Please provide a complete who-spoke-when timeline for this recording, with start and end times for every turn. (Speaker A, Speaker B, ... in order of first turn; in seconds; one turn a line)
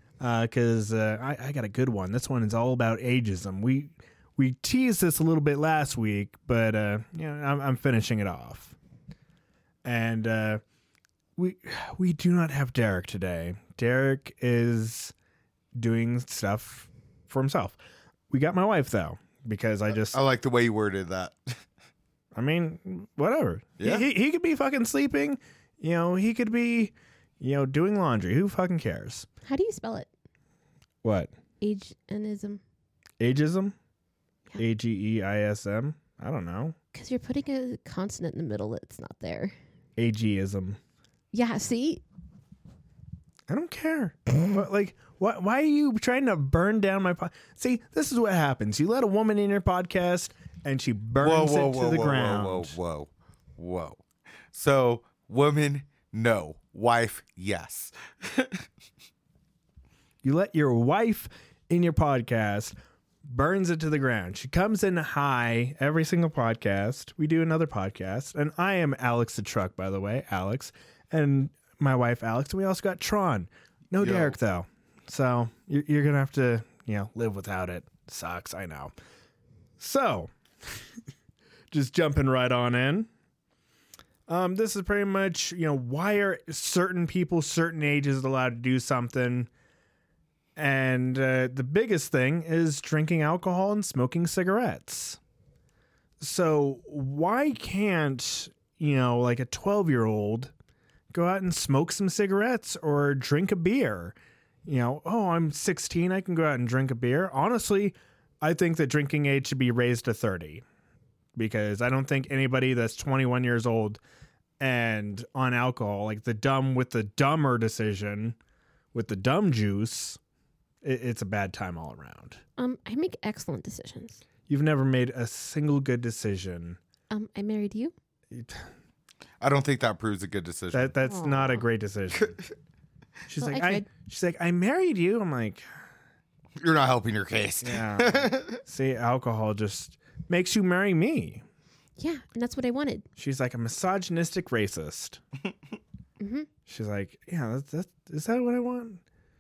Speaker A: 0.2-8.8
Speaker A: 9.8-10.6
Speaker A: 11.4-15.1
Speaker A: 15.8-17.8
Speaker A: 18.3-20.2
Speaker B: 19.9-21.6
Speaker A: 22.4-29.3
Speaker B: 23.8-24.1
Speaker C: 29.4-30.1
Speaker A: 31.0-31.3
Speaker C: 31.6-32.6
Speaker A: 33.2-33.8
Speaker A: 34.6-36.8
Speaker C: 36.9-39.5
Speaker A: 40.0-40.8
Speaker C: 41.3-42.0
Speaker A: 43.5-52.8
Speaker B: 51.2-58.7
Speaker A: 60.2-62.7
Speaker A: 63.2-78.9
Speaker B: 74.0-74.4
Speaker A: 79.8-80.3
Speaker A: 81.7-83.1
Speaker A: 84.3-89.5
Speaker A: 90.6-95.2
Speaker A: 96.2-100.5
Speaker A: 101.1-110.6
Speaker A: 111.4-114.0
Speaker A: 114.6-118.4
Speaker A: 118.9-120.2
Speaker A: 120.8-122.4
Speaker C: 122.6-124.2
Speaker A: 124.5-126.8
Speaker C: 127.1-127.9
Speaker A: 128.3-128.7
Speaker B: 129.4-130.9
Speaker A: 130.7-132.4
Speaker C: 131.1-131.6
Speaker A: 133.3-135.6
Speaker C: 133.4-133.9
Speaker B: 136.6-138.6
Speaker A: 137.6-141.4
Speaker C: 142.0-143.1
Speaker A: 143.2-145.2
Speaker C: 146.2-146.5
Speaker A: 146.7-149.0